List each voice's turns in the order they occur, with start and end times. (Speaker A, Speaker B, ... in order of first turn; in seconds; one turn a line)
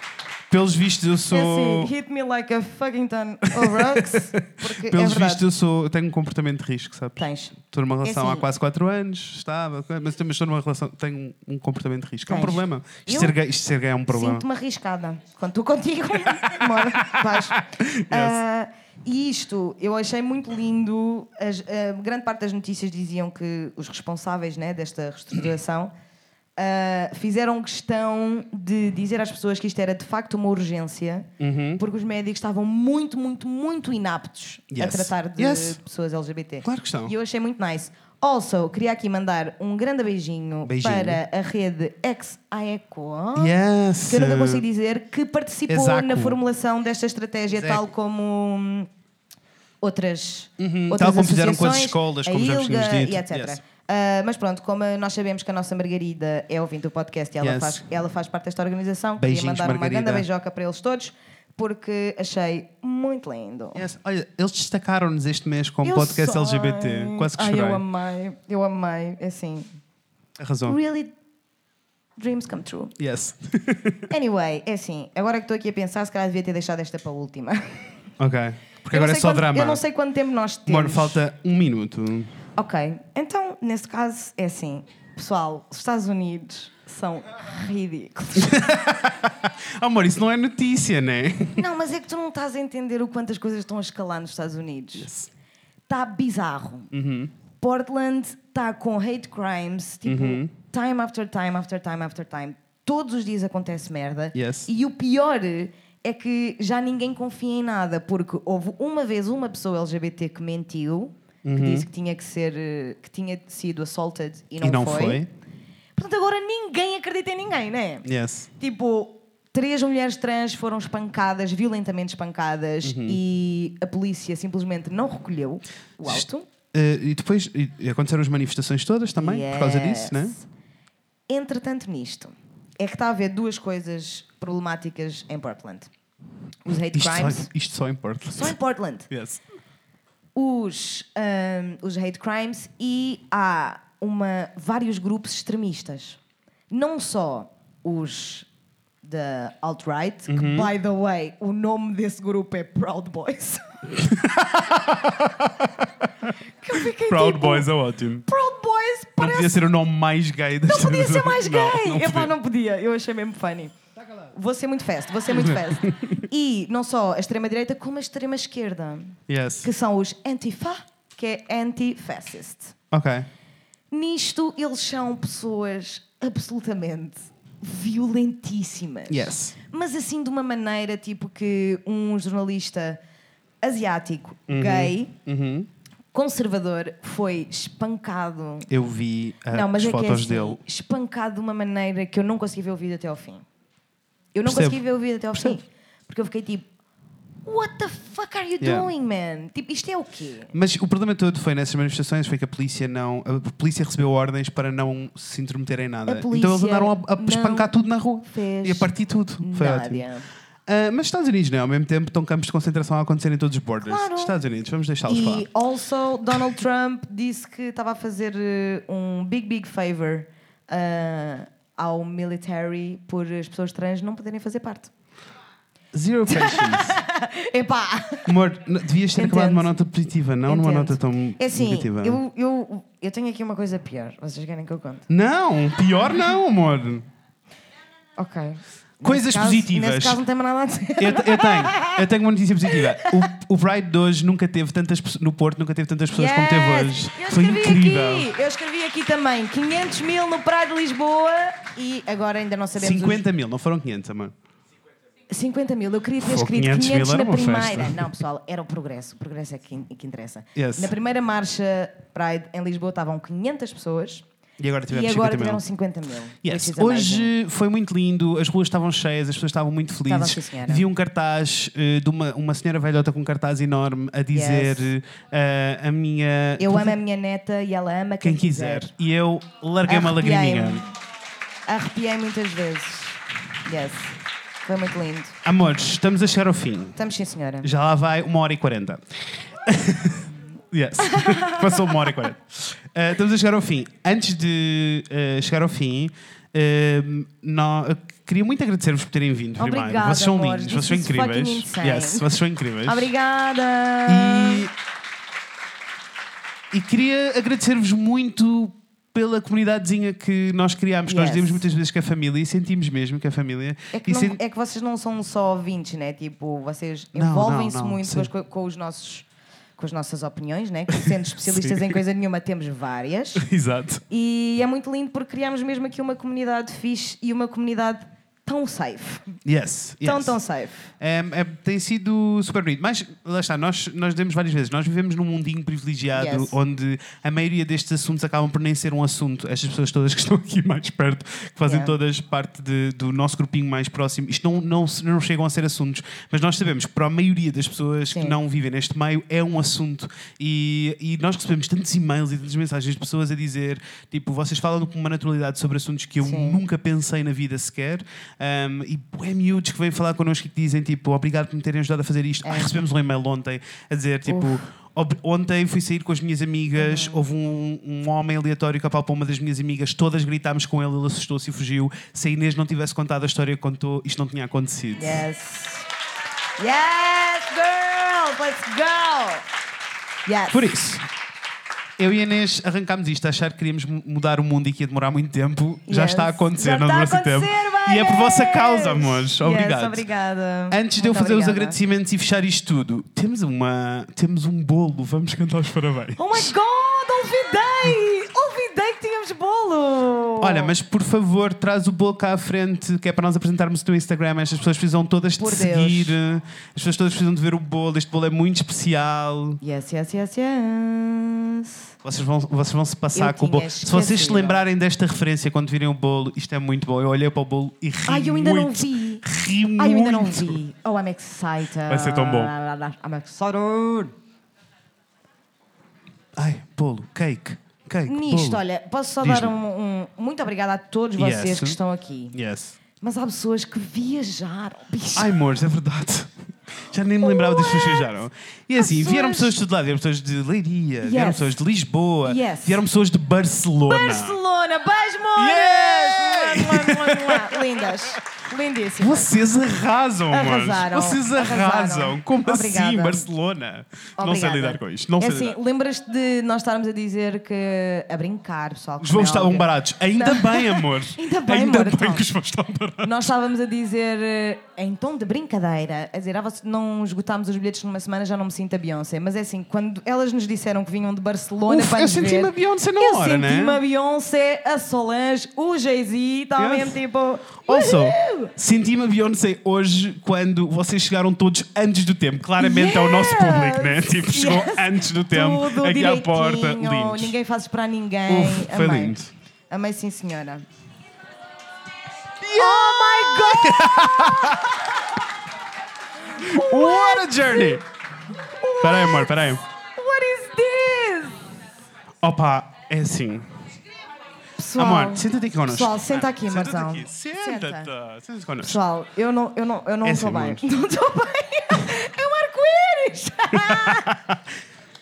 Speaker A: 0.5-1.9
Speaker B: 1.3-5.4
Speaker A: 3.5-14.4
Speaker B: 7.2-8.5
Speaker B: 12.3-13.4
Speaker B: 14.1-25.9
Speaker A: 17.1-18.4
Speaker B: 26.6-43.5
Speaker A: 31.4-31.8
Speaker A: 34.7-35.8
Speaker A: 36.6-37.1
Speaker A: 40.6-41.2
Speaker A: 43.4-44.6
Speaker B: 44.1-48.9
Speaker A: 45.7-46.4
Speaker A: 47.5-47.9
Speaker B: 49.8-63.8
Speaker A: 50.6-53.6
Speaker A: 57.4-57.8
Speaker A: 59.2-60.3
Speaker A: 63.8-67.8
Speaker B: 65.8-69.7
Speaker A: 70.4-70.8
Speaker B: 70.7-71.1
Speaker B: 72.2-72.9
Speaker A: 73.0-74.0
Speaker B: 74.1-77.8
Speaker A: 78.2-79.8
Speaker B: 78.9-81.2
Speaker A: 80.7-82.3
Speaker B: 82.6-88.7
Speaker A: 88.4-91.6
Speaker B: 91.6-95.1
Speaker A: 95.0-95.3
Speaker B: 95.9-96.9
Speaker A: 96.9-97.3
Speaker B: 97.6-115.2
Speaker A: 100.0-100.5
Speaker A: 104.3-104.7
Speaker A: 111.4-111.9
Speaker A: 114.6-115.3
Speaker B: 116.0-118.1
Speaker A: 118.0-118.5
Speaker B: 118.6-126.5
Speaker A: 122.8-123.2
Speaker A: 126.0-130.4
Speaker B: 129.2-130.5
Speaker B: 131.3-135.9
Speaker B: 136.7-137.5
Speaker A: 136.9-138.6
Speaker B: 138.3-139.1
Speaker A: 139.1-139.4
Speaker B: 140.3-146.2
Speaker B: 146.7-148.5
Speaker B: 149.0-153.7
Speaker A: 150.3-150.7
Speaker A: 153.9-155.9
Speaker B: 156.6-157.7
Speaker A: 157.1-158.2
Speaker B: 158.3-159.6
Speaker A: 159.2-162.3
Speaker B: 160.7-163.7
Speaker B: 164.3-172.8
Speaker A: 165.3-166.0
Speaker A: 169.3-169.7
Speaker A: 172.9-173.3
Speaker B: 173.9-183.0
Speaker A: 179.1-179.6
Speaker B: 183.6-185.1
Speaker A: 184.5-185.7
Speaker B: 186.1-188.7
Speaker A: 188.7-190.6
Speaker B: 189.5-193.4
Speaker B: 194.3-196.7
Speaker A: 194.5-194.8
Speaker B: 197.5-200.5
Speaker A: 198.6-198.9
Speaker A: 200.5-210.1
Speaker B: 206.1-208.9
Speaker B: 209.4-210.3
Speaker A: 210.7-215.5
Speaker B: 213.8-214.4
Speaker B: 215.1-224.9
Speaker A: 225.9-227.0
Speaker B: 226.3-228.3
Speaker A: 228.3-232.2
Speaker B: 229.2-229.7
Speaker B: 230.5-235.1
Speaker A: 235.1-237.1
Speaker B: 238.2-242.1
Speaker A: 239.0-240.2
Speaker A: 241.0-248.3
Speaker B: 242.7-243.2
Speaker B: 246.1-253.2
Speaker A: 252.8-254.3
Speaker B: 255.3-264.2
Speaker A: 256.2-258.1
Speaker A: 260.6-260.9
Speaker A: 264.6-265.6
Speaker B: 264.9-267.3
Speaker A: 266.4-277.0
Speaker B: 270.1-270.9
Speaker B: 274.3-274.9
Speaker B: 276.6-278.9
Speaker A: 278.2-280.9
Speaker B: 279.9-280.9
Speaker B: 281.7-285.4
Speaker A: 285.4-287.0
Speaker B: 287.0-287.7
Speaker A: 287.6-303.1
Speaker B: 291.0-292.1
Speaker B: 299.6-302.3
Speaker B: 302.9-304.7
Speaker A: 304.1-304.7
Speaker A: 306.7-314.4
Speaker B: 311.1-311.6
Speaker B: 313.9-319.3
Speaker A: 317.1-318.3
Speaker B: 319.8-323.5
Speaker A: 321.4-322.0
Speaker A: 323.4-324.0
Speaker B: 324.1-329.4
Speaker A: 329.4-330.4
Speaker B: 330.0-330.9
Speaker A: 331.0-375.2
Speaker B: 336.1-336.6
Speaker B: 341.6-342.0
Speaker B: 356.2-356.6
Speaker B: 362.4-362.7
Speaker B: 364.3-364.6
Speaker B: 366.8-367.2
Speaker B: 375.0-375.9
Speaker B: 376.6-379.4
Speaker B: 380.3-380.6
Speaker A: 380.5-381.1
Speaker A: 382.0-390.1
Speaker B: 385.9-391.8
Speaker A: 390.7-396.5
Speaker B: 396.2-400.7
Speaker A: 400.4-409.6
Speaker B: 405.4-406.2
Speaker B: 409.6-411.9
Speaker A: 412.0-420.6
Speaker B: 413.1-414.6
Speaker B: 418.1-419.2
Speaker B: 419.8-424.1
Speaker A: 421.9-422.5
Speaker A: 426.4-428.6
Speaker B: 428.1-432.4
Speaker A: 429.2-429.5
Speaker A: 431.2-431.8
Speaker A: 432.3-432.8
Speaker B: 433.0-435.3
Speaker A: 435.1-444.4
Speaker B: 437.2-438.1
Speaker B: 438.8-439.6
Speaker B: 441.0-441.6
Speaker B: 442.2-442.8
Speaker B: 443.9-449.3
Speaker A: 445.4-448.1
Speaker A: 449.0-455.6
Speaker B: 450.3-453.3
Speaker B: 454.2-462.3
Speaker A: 459.0-463.1
Speaker B: 463.0-478.5
Speaker A: 471.7-473.8
Speaker A: 476.6-477.0
Speaker A: 477.7-487.4
Speaker B: 482.6-489.2
Speaker A: 488.3-489.3
Speaker B: 489.7-490.6
Speaker A: 492.4-494.8
Speaker B: 492.5-494.8
Speaker B: 496.3-497.8
Speaker A: 496.4-497.8
Speaker B: 498.5-499.3
Speaker A: 498.8-499.6
Speaker B: 500.0-501.4
Speaker A: 502.2-503.5
Speaker B: 504.6-507.9
Speaker A: 504.8-508.8
Speaker B: 508.6-514.1
Speaker A: 510.0-510.6
Speaker A: 513.5-514.4